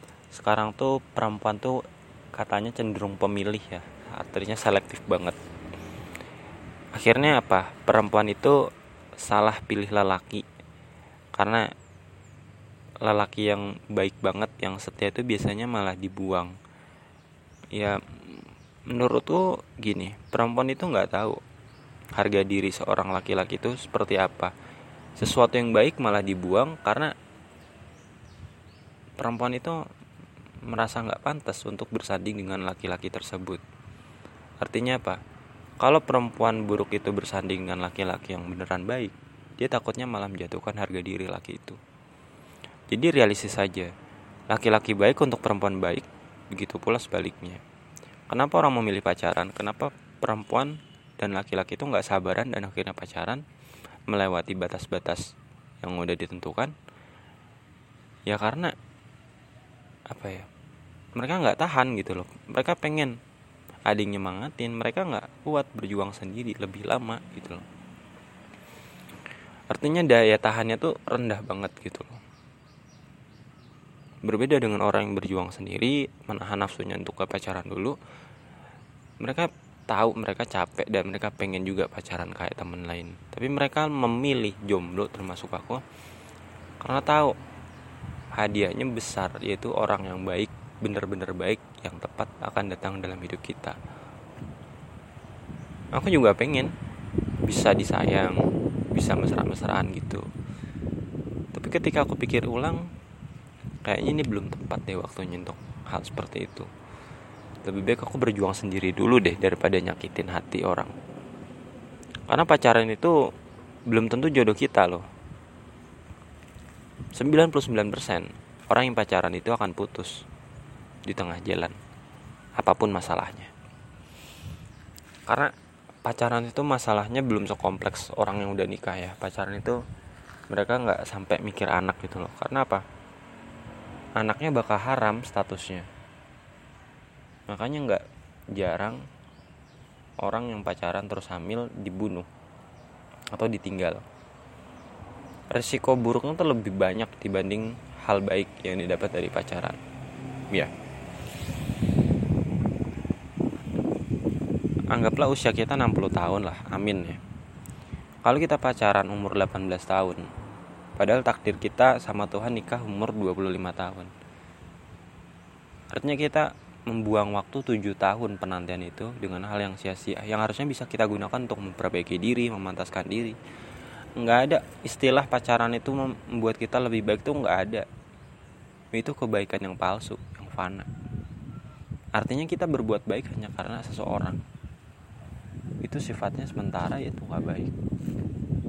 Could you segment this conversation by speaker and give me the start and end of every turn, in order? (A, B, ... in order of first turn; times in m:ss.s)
0:00.3-0:01.8 A
0:02.3-0:05.4 A
0:06.9-0:08.6 A
0:09.2-0:10.4 A
0:11.3-0:11.6 A
0:13.0-0:16.5 A
0:17.7-0:21.4 A
0:22.1-0:24.5 A
0:25.2-0:27.1 A
0:29.2-0:29.8 A
0:30.7-0:33.6 A
0:34.6-0:35.2 A
0:35.8-0:41.8 A
0:42.9-0:43.9 A
0:44.5-0:47.6 A
0:48.3-0:53.4 A
0:54.1-0:55.3 A
0:55.8-0:56.7 A
0:58.3-0:58.7 A
1:00.1-1:00.5 A
1:01.2-1:03.1 A
1:03.9-1:07.6 A
1:09.7-1:12.2 A
1:14.2-1:18.0 A
1:19.2-1:25.8 A
1:26.8-1:27.3 A
1:28.3-1:33.8 A
1:35.9-1:36.7 A
1:37.4-1:38.4 A
1:38.9-1:40.2 A
1:41.5-1:42.9 A
1:43.8-1:46.7 A
1:47.6-1:50.9 A
1:52.3-1:53.1 A
1:53.9-1:55.0 A
1:57.1-2:00.2 A
2:01.0-2:01.8 A
2:02.6-2:03.5 A
2:05.3-2:05.5 A
2:06.0-2:09.8 A
2:10.5-2:12.8 A
2:14.2-2:15.9 A
2:17.5-2:18.0 A
2:18.5-2:19.0 A
2:20.2-2:22.3 A
2:23.3-2:24.0 A
2:25.5-2:29.8 A
2:34.9-2:37.2 A
2:38.2-2:40.2 A
2:41.0-2:44.1 A
2:45.9-2:53.4 A
2:54.2-2:57.8 A
2:58.9-3:00.9 A
3:02.2-3:04.4 A
3:05.8-3:07.7 A